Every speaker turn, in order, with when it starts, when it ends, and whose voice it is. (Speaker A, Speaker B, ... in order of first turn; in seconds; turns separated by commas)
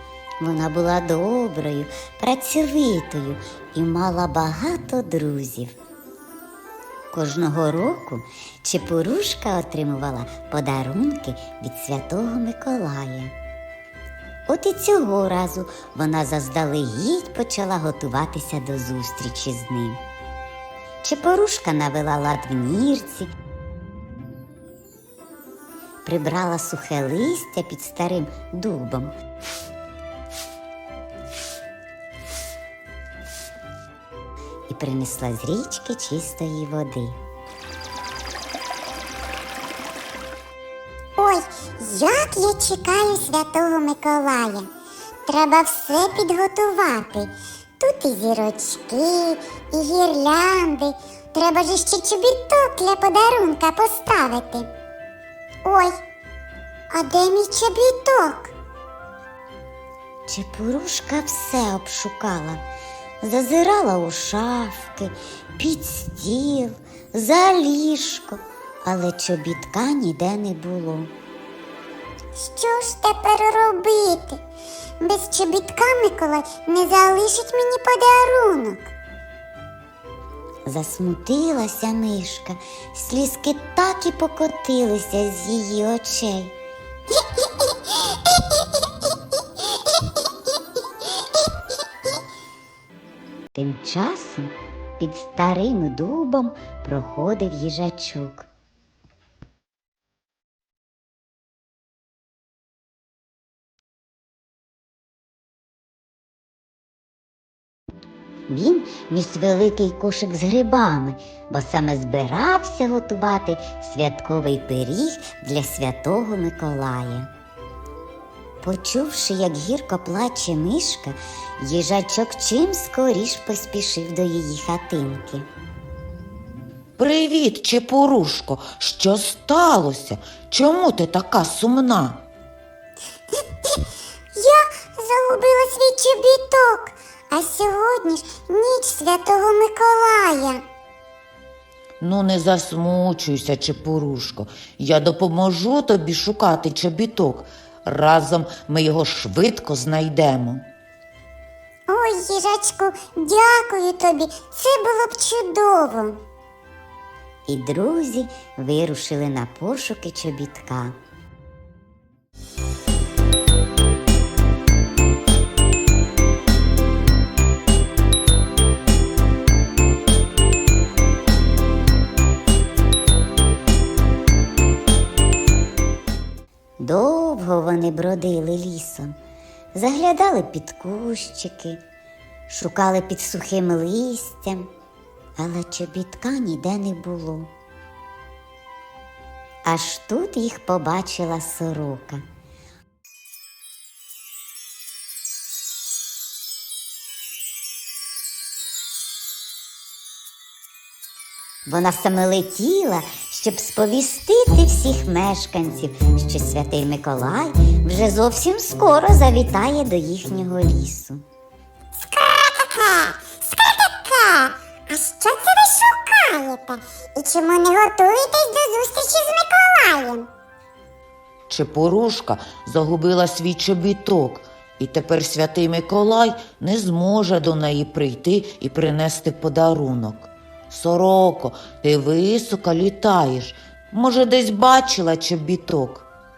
Speaker A: 0.4-5.7, Speaker A: 7.1-13.3, Speaker A: 14.5-20.0, Speaker A: 21.0-23.3, Speaker A: 26.0-29.1, Speaker A: 34.7-37.2, Speaker B: 41.2-44.7, Speaker B: 45.2-54.7, Speaker B: 55.6-55.9, Speaker B: 56.9-58.5, Speaker A: 60.3-62.6, Speaker A: 63.2-71.1, Speaker B: 72.4-74.4, Speaker B: 75.0-78.9, Speaker A: 80.7-86.5, Speaker A: 93.5-98.5, Speaker A: 108.5-117.3, Speaker A: 118.6-125.5, Speaker C: 127.0-132.2, Speaker B: 134.3-140.6, Speaker C: 142.0-150.7, Speaker B: 151.9-156.2, Speaker A: 157.5-160.9, Speaker A: 176.8-179.1, Speaker A: 179.7-181.8, Speaker A: 182.5-184.7, Speaker A: 185.4-187.5, Speaker A: 189.6-192.2, Speaker A: 201.7-211.2, Speaker B: 211.9-220.3, Speaker C: 221.5-236.1